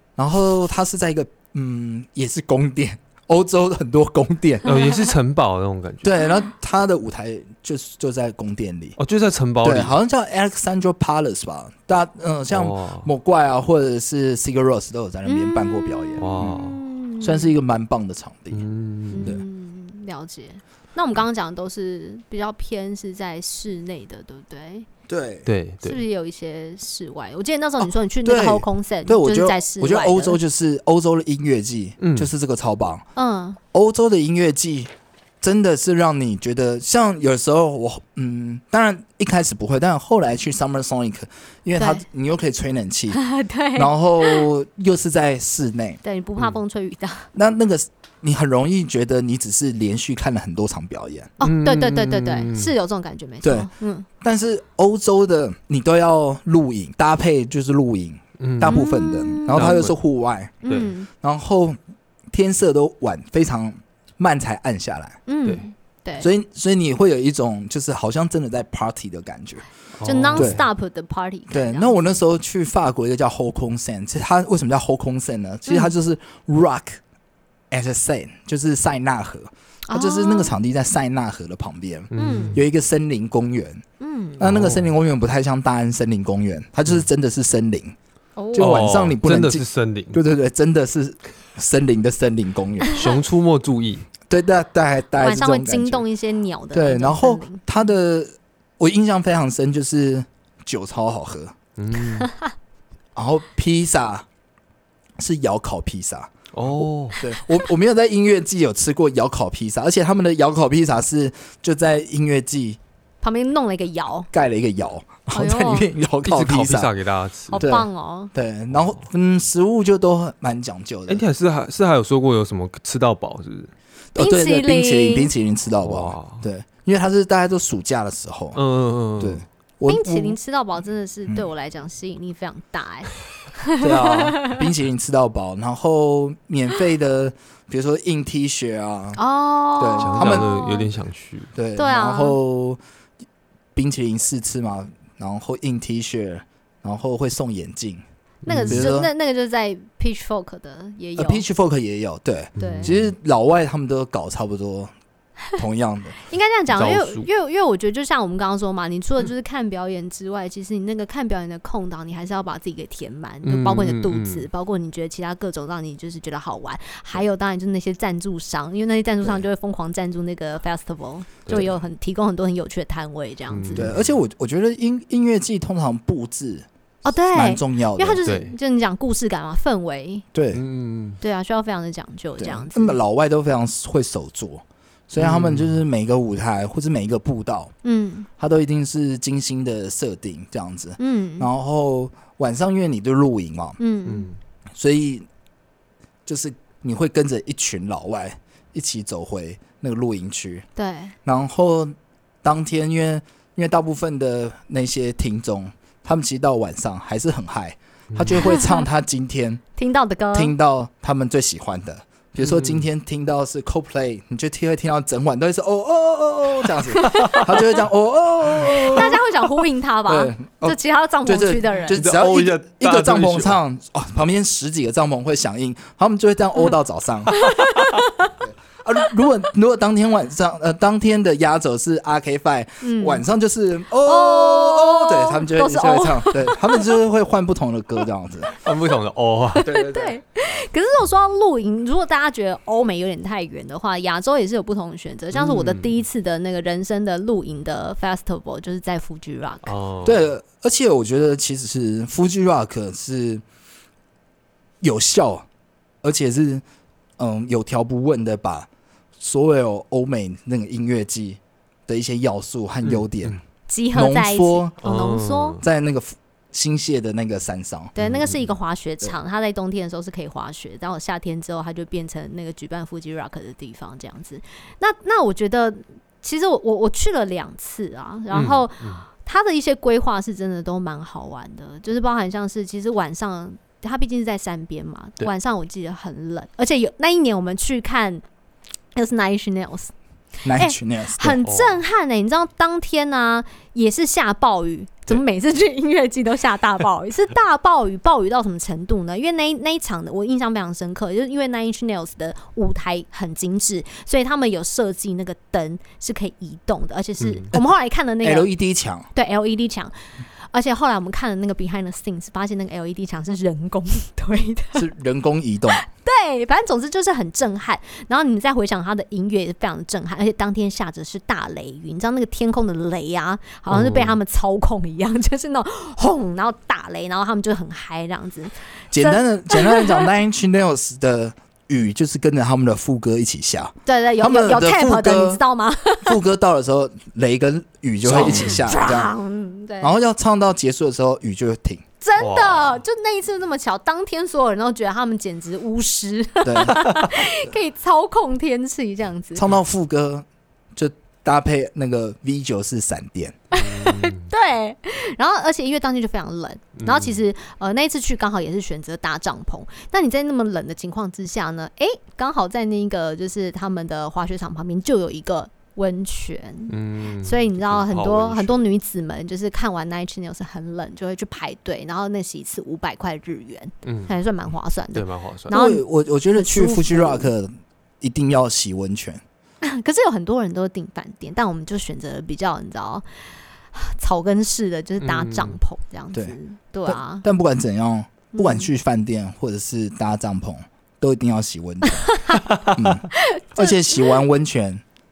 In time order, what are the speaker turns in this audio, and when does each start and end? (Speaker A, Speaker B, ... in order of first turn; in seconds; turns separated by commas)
Speaker A: 0.2-4.7, Speaker B: 4.7-6.2, Speaker C: 4.7-5.0, Speaker A: 6.0-9.0, Speaker B: 9.0-9.9, Speaker A: 9.6-16.6, Speaker B: 12.5-13.1, Speaker C: 15.3-17.5, Speaker B: 16.2-16.8, Speaker A: 17.2-18.6, Speaker B: 18.5-19.3, Speaker C: 19.1-24.9, Speaker A: 25.1-25.5, Speaker B: 25.5-26.0, Speaker C: 25.8-30.4, Speaker A: 28.2-33.1, Speaker B: 32.0-32.3, Speaker C: 33.2-33.6, Speaker A: 33.7-43.2, Speaker C: 41.8-42.0, Speaker C: 43.1-44.5, Speaker A: 43.8-46.0, Speaker C: 46.0-47.3, Speaker A: 47.3-51.3, Speaker C: 51.4-54.1, Speaker B: 51.4-52.7, Speaker A: 53.4-53.7, Speaker A: 54.2-61.8, Speaker B: 58.4-58.8, Speaker C: 58.6-59.7, Speaker B: 59.5-60.0, Speaker C: 60.6-61.1, Speaker A: 62.3-65.2, Speaker C: 65.3-66.3, Speaker A: 66.2-69.7, Speaker B: 70.0-70.6, Speaker C: 70.0-72.0, Speaker A: 70.4-70.6, Speaker A: 71.5-77.0, Speaker C: 75.7-75.9, Speaker A: 77.7-83.8, Speaker C: 79.9-80.5, Speaker B: 82.1-82.6, Speaker C: 82.2-82.6, Speaker C: 84.0-84.5, Speaker A: 84.4-88.0, Speaker B: 84.4-84.9, Speaker C: 88.4-88.9, Speaker A: 88.5-93.0, Speaker B: 88.6-90.2, Speaker B: 92.9-94.1, Speaker A: 94.3-96.0, Speaker C: 95.2-97.6, Speaker A: 96.7-101.5, Speaker B: 101.8-102.3, Speaker C: 102.2-102.5, Speaker A: 103.2-104.3, Speaker A: 105.2-112.8, Speaker B: 106.5-107.2, Speaker C: 113.2-114.3, Speaker A: 114.3-116.9, Speaker C: 115.3-115.9, Speaker B: 116.2-117.6, Speaker C: 117.5-118.3, Speaker A: 117.6-121.2, Speaker B: 121.1-123.7, Speaker A: 124.2-128.6, Speaker C: 124.2-125.3, Speaker B: 125.8-126.4, Speaker B: 128.6-129.4, Speaker A: 129.2-130.4, Speaker C: 129.9-134.6, Speaker A: 133.8-139.2, Speaker C: 139.2-140.9, Speaker A: 139.8-140.5, Speaker B: 140.0-141.5, Speaker A: 141.6-142.8, Speaker C: 141.8-142.4, Speaker A: 143.8-148.0, Speaker B: 148.4-148.9, Speaker C: 148.5-151.4, Speaker A: 148.6-149.1, Speaker A: 151.2-154.9, Speaker B: 152.6-153.1, Speaker C: 152.6-152.9, Speaker A: 155.6-156.2, Speaker C: 156.2-173.9, Speaker B: 156.7-157.3, Speaker B: 163.4-164.5, Speaker B: 173.5-174.2, Speaker A: 173.8-176.7, Speaker C: 177.1-180.2, Speaker A: 177.3-178.2, Speaker B: 178.2-178.6, Speaker A: 180.3-180.6, Speaker B: 180.5-181.2, Speaker C: 181.2-183.0, Speaker A: 182.4-187.7, Speaker B: 185.2-185.8, Speaker C: 187.8-188.3, Speaker A: 188.4-193.8, Speaker C: 191.0-191.5, Speaker C: 193.8-194.3, Speaker B: 194.1-194.4, Speaker A: 194.8-195.3, Speaker A: 196.3-200.7, Speaker C: 200.8-201.2, Speaker A: 201.2-209.6, Speaker B: 208.1-208.4, Speaker C: 208.4-208.8, Speaker C: 209.8-210.5, Speaker A: 210.3-219.2, Speaker B: 212.4-212.9, Speaker B: 217.0-217.5, Speaker C: 218.6-222.0, Speaker A: 220.1-227.5, Speaker B: 221.9-223.6, Speaker C: 227.4-228.3, Speaker A: 228.4-238.5, Speaker C: 232.8-233.2, Speaker C: 234.0-236.9, Speaker B: 238.6-239.7, Speaker C: 239.6-249.7, Speaker A: 239.7-240.2, Speaker B: 245.3-245.9, Speaker B: 249.6-250.3, Speaker A: 250.0-253.4, Speaker A: 254.8-255.5, Speaker A: 256.0-256.6, Speaker A: 257.2-258.7, Speaker A: 259.2-263.4, Speaker B: 262.8-263.4, Speaker C: 263.7-265.6, Speaker A: 263.9-264.8, Speaker B: 264.8-265.6, Speaker A: 265.6-267.9, Speaker C: 267.9-288.2, Speaker B: 268.0-268.5, Speaker B: 278.3-279.0, Speaker C: 288.9-289.9, Speaker A: 290.4-291.4, Speaker C: 290.6-308.5, Speaker B: 291.4-291.8, Speaker B: 307.2-307.5, Speaker A: 308.2-309.1, Speaker C: 309.1-310.0, Speaker C: 310.5-314.9, Speaker A: 314.8-315.9, Speaker C: 315.7-330.1, Speaker B: 323.7-324.2, Speaker A: 328.9-335.4, Speaker C: 333.9-336.2, Speaker A: 336.0-339.1, Speaker B: 338.1-338.6, Speaker C: 338.1-339.9, Speaker A: 339.8-341.8, Speaker C: 342.0-349.4, Speaker B: 342.2-342.8, Speaker A: 346.4-347.0, Speaker A: 349.4-353.4, Speaker C: 353.5-375.8, Speaker B: 353.6-354.2, Speaker B: 356.8-357.2, Speaker B: 366.7-368.6, Speaker B: 373.8-374.1, Speaker B: 374.9-375.5, Speaker A: 375.5-379.2, Speaker C: 376.3-377.3, Speaker C: 379.6-383.1, Speaker C: 383.7-387.2, Speaker B: 385.0-385.6, Speaker A: 386.1-394.8, Speaker C: 388.3-388.7, Speaker C: 391.9-392.5, Speaker C: 393.1-394.1